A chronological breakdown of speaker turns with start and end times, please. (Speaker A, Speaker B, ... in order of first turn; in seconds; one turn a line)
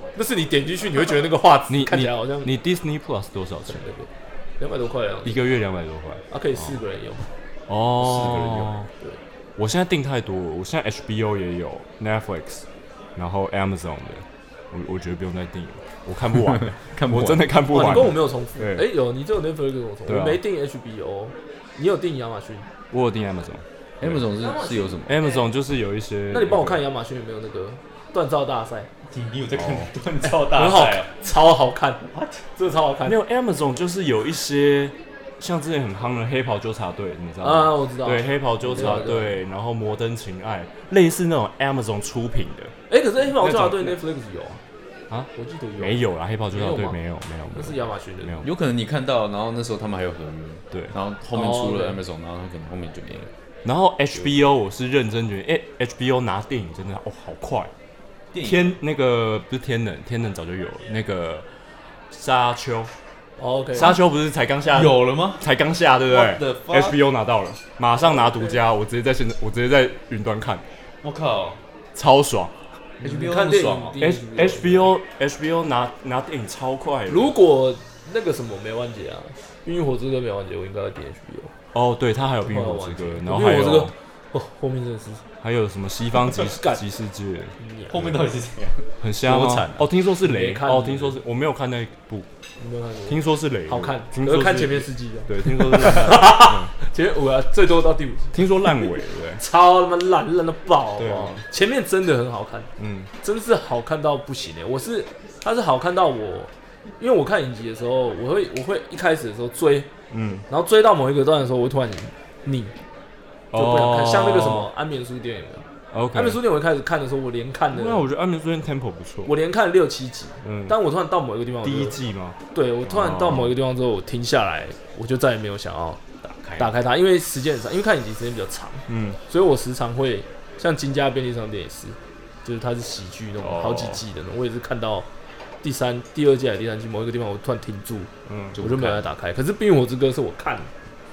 Speaker A: 0.1-2.5
Speaker B: 1.7-3.9
Speaker A: 3.6-5.4
Speaker B: 5.2-6.7
Speaker A: 6.3-7.3
Speaker B: 7.7-8.9
Speaker C: 8.0-8.7
Speaker B: 9.6-12.7
Speaker B: 13.2-18.9
Speaker C: 16.5-18.1
Speaker A: 17.7-22.7
Speaker B: 20.1-20.4
Speaker B: 22.9-24.3
Speaker C: 24.0-25.2
Speaker A: 24.4-25.5
Speaker B: 25.1-26.8
Speaker A: 26.3-28.9
Speaker C: 29.1-31.1
Speaker B: 29.5-29.9
Speaker A: 30.4-32.0
Speaker C: 32.1-32.5
Speaker A: 32.6-33.2
Speaker B: 33.0-42.7
Speaker A: 37.4-39.4
Speaker C: 38.6-39.2
Speaker A: 42.9-44.6
Speaker B: 43.3-44.0
Speaker B: 45.1-48.5
Speaker A: 45.4-47.0
Speaker A: 47.5-48.4
Speaker C: 48.4-53.3
Speaker A: 51.3-52.0
Speaker B: 53.6-57.7
Speaker C: 58.3-58.7
Speaker B: 58.4-61.5
Speaker B: 62.1-62.9
Speaker A: 63.4-63.9
Speaker B: 63.8-70.6
Speaker C: 64.7-65.4
Speaker C: 66.1-67.0
Speaker C: 71.0-71.6
Speaker B: 72.0-72.7
Speaker A: 73.0-74.9
Speaker C: 73.0-74.0
Speaker B: 74.0-77.3
Speaker A: 77.1-81.5
Speaker B: 81.7-83.9
Speaker A: 82.5-85.2
Speaker B: 85.4-88.2
Speaker A: 86.3-86.8
Speaker A: 87.6-88.0
Speaker C: 87.9-89.9
Speaker B: 89.0-92.3
Speaker A: 90.2-91.2
Speaker A: 92.6-98.9
Speaker B: 93.1-96.7
Speaker B: 98.3-99.4
Speaker A: 99.4-102.7
Speaker B: 101.0-101.4
Speaker B: 102.8-103.1
Speaker A: 103.2-109.9
Speaker B: 110.1-110.5
Speaker A: 110.5-112.8
Speaker B: 113.5-114.7
Speaker A: 113.5-118.0
Speaker B: 115.9-116.4
Speaker B: 117.7-119.3
Speaker A: 119.2-126.0
Speaker B: 120.4-120.8
Speaker B: 121.6-123.6
Speaker C: 126.2-126.7
Speaker A: 126.6-135.1
Speaker B: 128.9-129.2
Speaker B: 133.4-134.0
Speaker A: 135.6-140.7
Speaker B: 138.3-138.6
Speaker C: 138.6-139.1